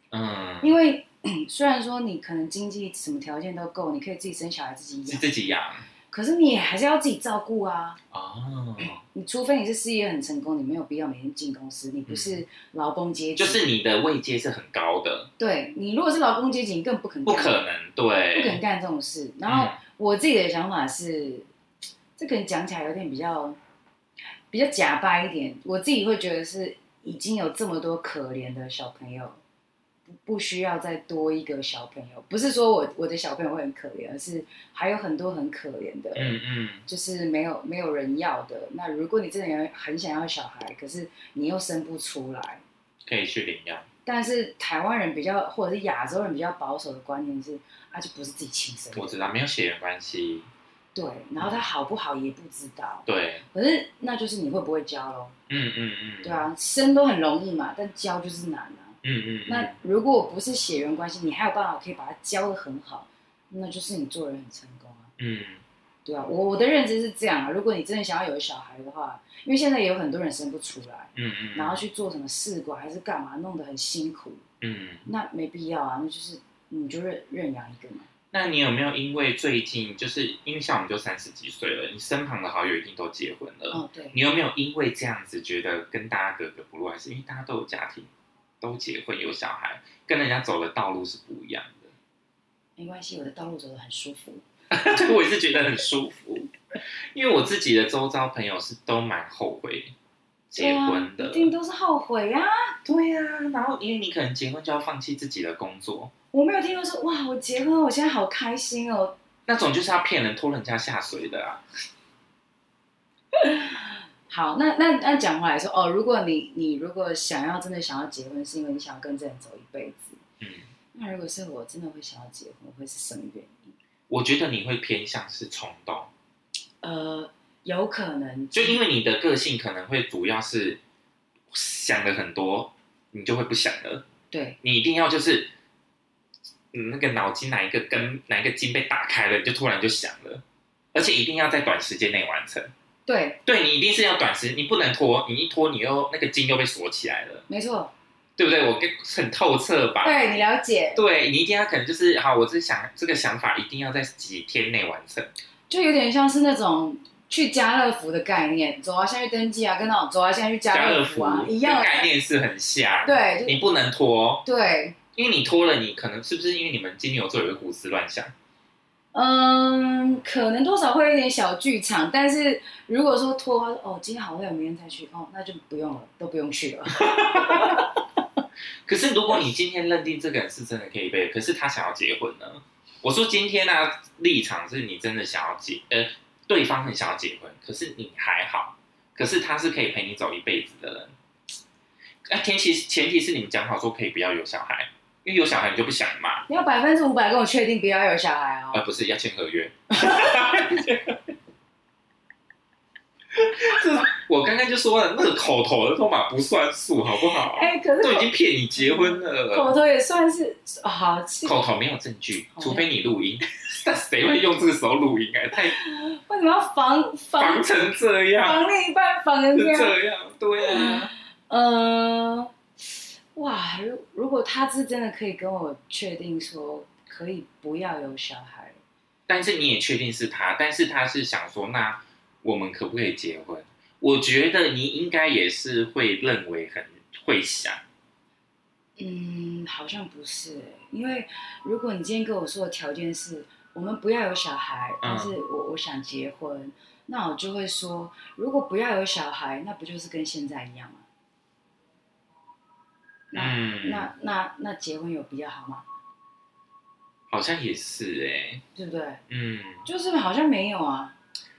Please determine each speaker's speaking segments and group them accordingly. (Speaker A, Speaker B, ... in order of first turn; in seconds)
Speaker A: 0.1-0.7, 5.1-5.9, 8.1-9.0, 12.1-12.4, 13.4-15.3, 17.2-18.6, 19.5-19.8, 36.1-36.8, 43.1-43.9, 48.9-50.5, 51.4-51.6, 53.1-53.4, 55.5-56.5, 59.0-59.7, 65.2-65.6, 71.1-71.8, 74.6-75.1, 78.3-88.1, 88.6-91.9, 94.7-96.5, 97.1-99.9, 100.5-101.5, 102.8-106.1, 109.5-111.6, 120.4-120.7, 124.1-126.1, 128.5-130.8, 131.5-134.0, 134.6-135.5, 136.7-140.4, 140.9-142.7, 143.4-147.4, 148.4-150.4, 150.9-155.3, 160.7-164.4, 165.1-168.3, 176.9-177.9, 178.9-191.1, 192.2-196.4, 198.7-201.2, 203.3-209.7, 211.4-215.8, 217.4-218.7, 219.6-221.1, 229.3-237.8, 245.0-245.3, 253.3-254.1, 257.3-258.6, 259.3-259.9
Speaker B: 0.6-5.3, 6.1-8.0, 8.8-13.6, 15.4-17.6, 18.3-21.5, 22.2-23.6, 24.5-29.4, 30.1-42.6, 44.1-49.2, 50.9-55.4, 56.2-59.0, 59.5-65.1, 66.0-74.4, 75.1-78.1, 83.7-84.2, 92.8-94.4, 100.5-102.7, 106.3-109.2, 113.3-120.2, 120.9-123.7, 126.8-128.8, 134.3-134.6, 143.1-143.4, 147.5-147.9, 150.0-151.0, 155.7-162.1, 163.0-163.6, 164.4-164.9, 169.1-177.9, 196.5-198.8, 200.0-200.7, 207.3-211.6, 212.5-212.9, 215.7-217.6, 218.4-219.9, 220.6-228.8, 239.0-251.1, 253.3-255.9, 258.7-259.2, 259.9-261.1